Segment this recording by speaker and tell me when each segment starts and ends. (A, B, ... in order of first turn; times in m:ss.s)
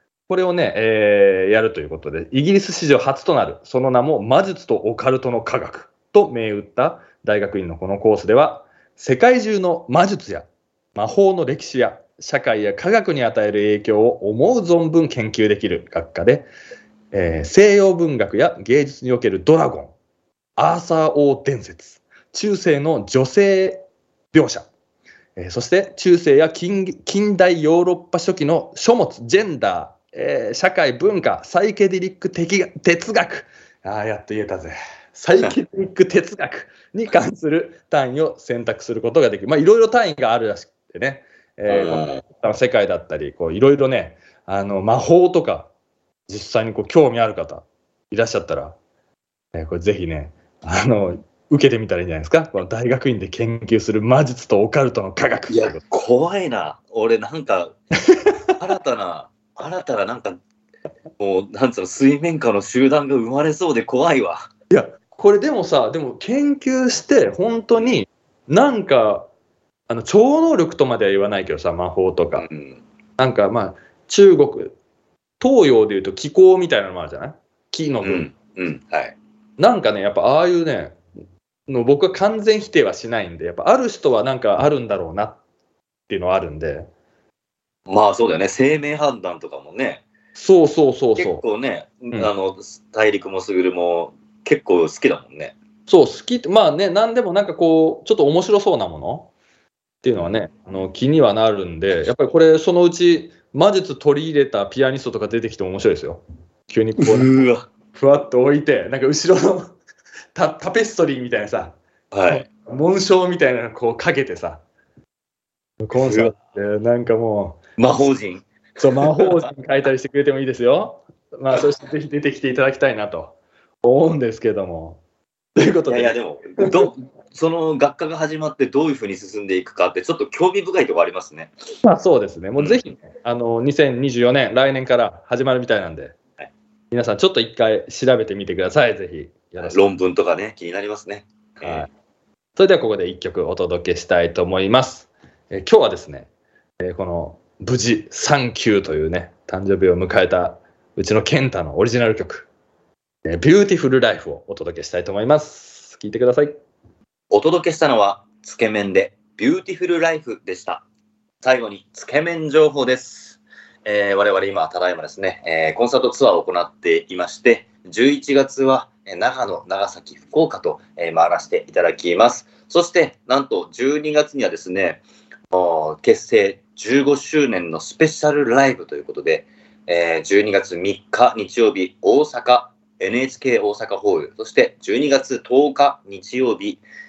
0:00.3-0:16.5 A
0:17.1-0:19.9 A
0:20.6-0:24.7 A
0:25.4-0:45.7 A
0:41.7-0:42.2 B
0:46.3-0:48.8 A
0:49.5-0:55.8 A
0:55.5-0:57.8 B
0:58.6-1:00.4 B
1:01.2-1:04.5 B
1:04.7-1:09.3 A
1:09.9-1:12.5 A
1:12.4-1:12.8 B
1:13.2-1:14.8 A
1:15.4-1:18.3 A
1:18.0-1:19.2 B
1:19.6-1:21.0 A
1:21.7-1:25.4 A
1:26.1-1:26.9 A
1:27.9-1:30.0 B
1:30.4-1:31.4 A
1:31.2-1:35.6 B
1:35.9-1:39.3 A
1:40.0-1:47.3 A
1:47.0-1:47.6 B
1:47.9-1:49.7 A
1:50.4-1:54.6 A
1:52.1-1:52.5 B
1:55.8-1:57.6 A
1:55.9-1:56.3 B
1:57.8-1:59.5 B
1:58.8-2:05.0 A
2:05.6-2:06.9 A
2:05.9-2:11.5 B
2:11.8-2:16.2 A
2:12.6-2:12.9 B
2:16.9-2:19.8 A
2:19.6-2:21.9 B
2:21.6-2:21.9 A
2:22.6-2:26.3 A
2:26.8-2:32.5 A
2:33.2-2:36.6 A
2:37.3-2:40.8 B
2:41.4-3:06.8 B